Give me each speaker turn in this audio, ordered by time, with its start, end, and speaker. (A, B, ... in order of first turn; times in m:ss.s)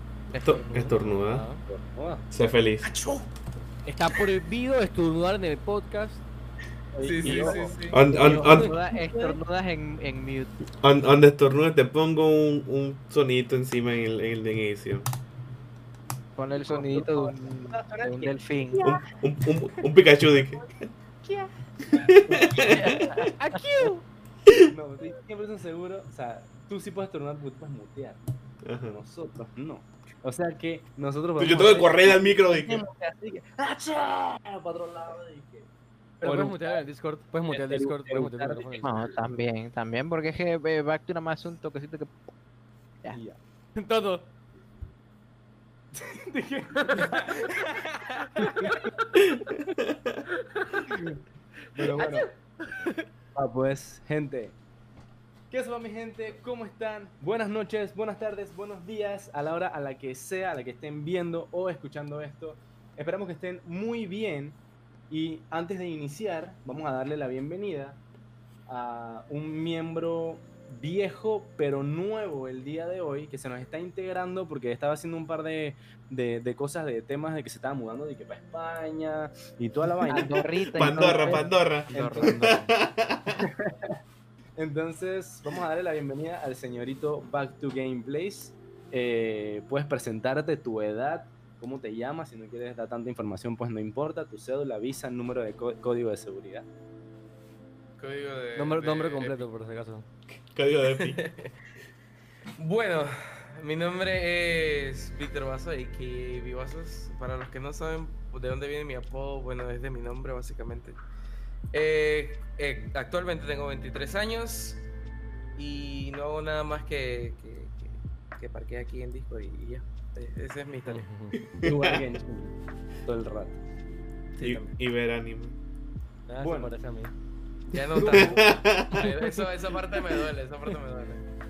0:00.3-0:01.0 A
0:00.3-0:01.4 B
0:01.3-0:01.6 C
0:01.6-0:02.3 D
0:02.3-0:02.9 B
0:02.8-0:03.3 E
0:03.8-0:06.2 C
0:06.9-0:09.4 D
0:07.0-0:08.0 E
0:07.9-0:08.7 B
0:08.1-0:10.5 A
0:10.8-0:15.0 B
0:16.4-0:19.0 A
0:16.6-0:18.3 D
0:18.8-0:20.7 B
0:21.2-0:21.5 A
0:21.9-0:23.3 B
0:22.2-0:23.0 D
0:22.5-0:23.9 A
0:23.3-0:24.0 C
0:24.7-0:28.2 D
0:28.6-0:29.0 B
0:28.9-0:35.7 D
0:31.4-0:32.8 B
0:36.2-0:38.9 C
0:36.2-0:36.8 D
0:37.5-0:39.2 D
0:38.8-0:42.3 A
0:43.1-0:43.4 D
0:43.7-0:44.3 C
0:45.9-0:47.7 D
0:46.7-0:48.9 C
0:48.4-0:48.9 D
0:49.4-0:50.2 B
0:50.5-0:50.9 C
0:50.9-0:51.2 D
0:51.7-0:53.0 C
0:51.8-0:52.3 D
0:53.3-0:54.6 D
0:55.5-1:04.6 D
1:05.1-1:08.0 D
1:08.7-1:22.6 D
1:20.0-1:21.5 A
1:20.7-1:23.4 B
1:21.9-1:22.7 C
1:23.3-1:24.0 D
1:24.6-1:36.7 D
1:38.0-1:39.5 E
1:38.6-1:40.0 C
1:40.4-1:41.2 B
1:40.8-1:41.5 E
1:42.6-1:51.0 E
1:51.7-1:54.8 E
1:55.6-2:01.0 E
2:00.9-2:01.4 C
2:01.5-2:02.0 B
2:01.6-2:02.5 D
2:03.0-2:03.6 D
2:04.4-2:04.7 E
2:04.4-2:05.6 B
2:06.3-2:07.1 C
2:06.4-2:06.7 D
2:07.7-2:11.2 E
2:07.7-2:09.1 B
2:08.1-2:08.4 D